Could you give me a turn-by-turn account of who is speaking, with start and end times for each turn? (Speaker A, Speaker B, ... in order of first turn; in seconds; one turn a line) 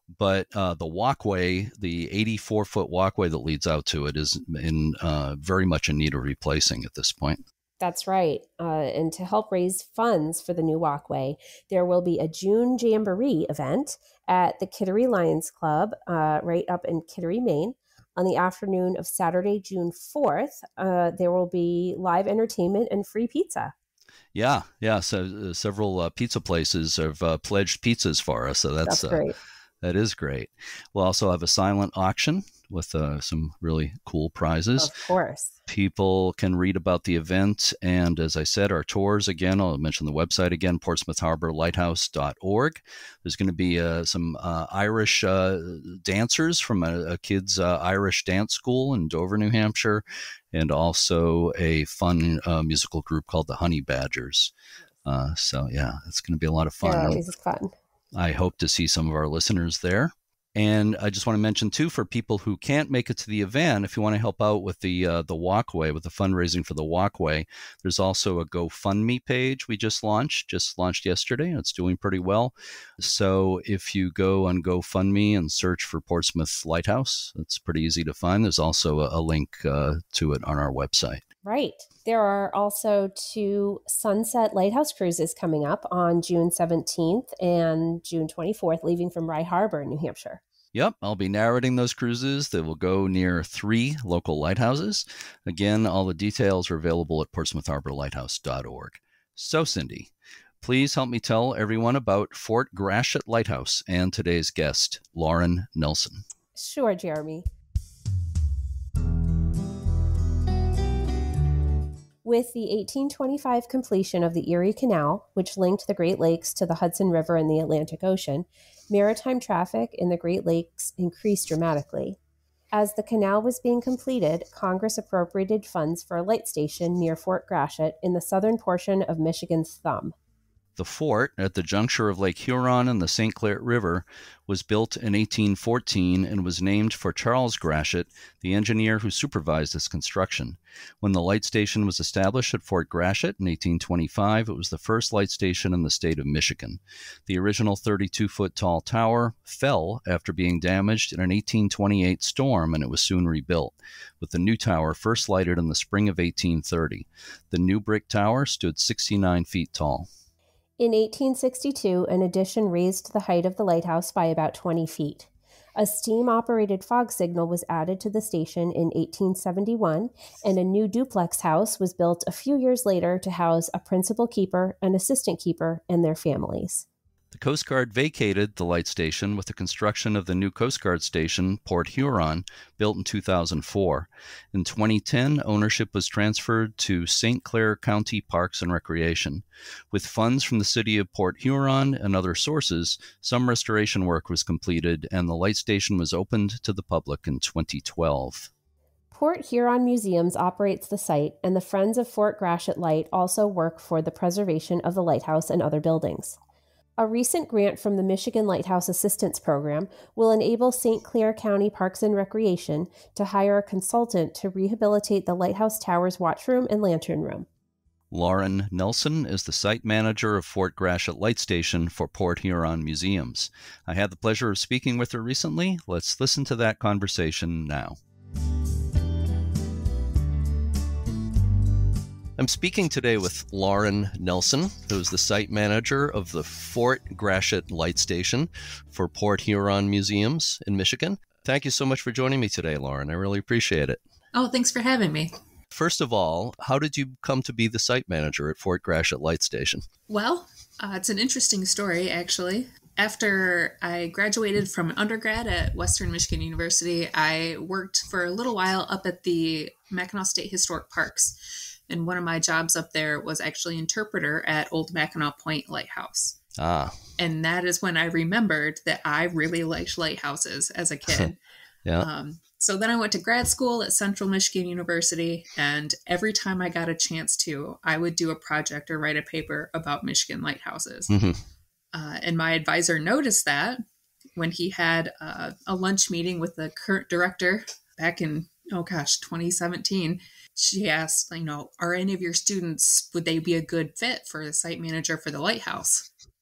Speaker A: 0.1-7.4
Speaker B: 7.8-23.7
Speaker A: 24.3-29.2
Speaker B: 28.8-29.4
Speaker A: 29.8-34.9
Speaker B: 34.8-35.5
Speaker A: 35.7-50.0
Speaker A: 50.5-54.5
Speaker A: 55.0-57.2
Speaker B: 56.8-57.7
Speaker A: 58.2-81.2
Speaker B: 81.4-90.4
Speaker A: 90.7-100.1
Speaker A: 100.6-106.2
Speaker B: 106.5-107.4
Speaker B: 112.2-122.2
Speaker B: 122.7-130.1
Speaker A: 130.8-160.1
Speaker B: 160.8-176.8
Speaker A: 177.3-189.4
Speaker A: 189.9-198.5
Speaker B: 199.1-206.4
Speaker B: 207.0-217.5
Speaker A: 218.1-227.9
Speaker A: 232.4-244.0
Speaker C: 244.3-245.3
Speaker A: 245.7-249.8
Speaker C: 250.1-261.4
Speaker C: 261.9-266.4
Speaker A: 266.6-267.0
Speaker C: 267.2-271.4
Speaker C: 272.0-281.1
Speaker A: 281.1-281.4
Speaker C: 281.9-283.8
Speaker C: 284.4-296.1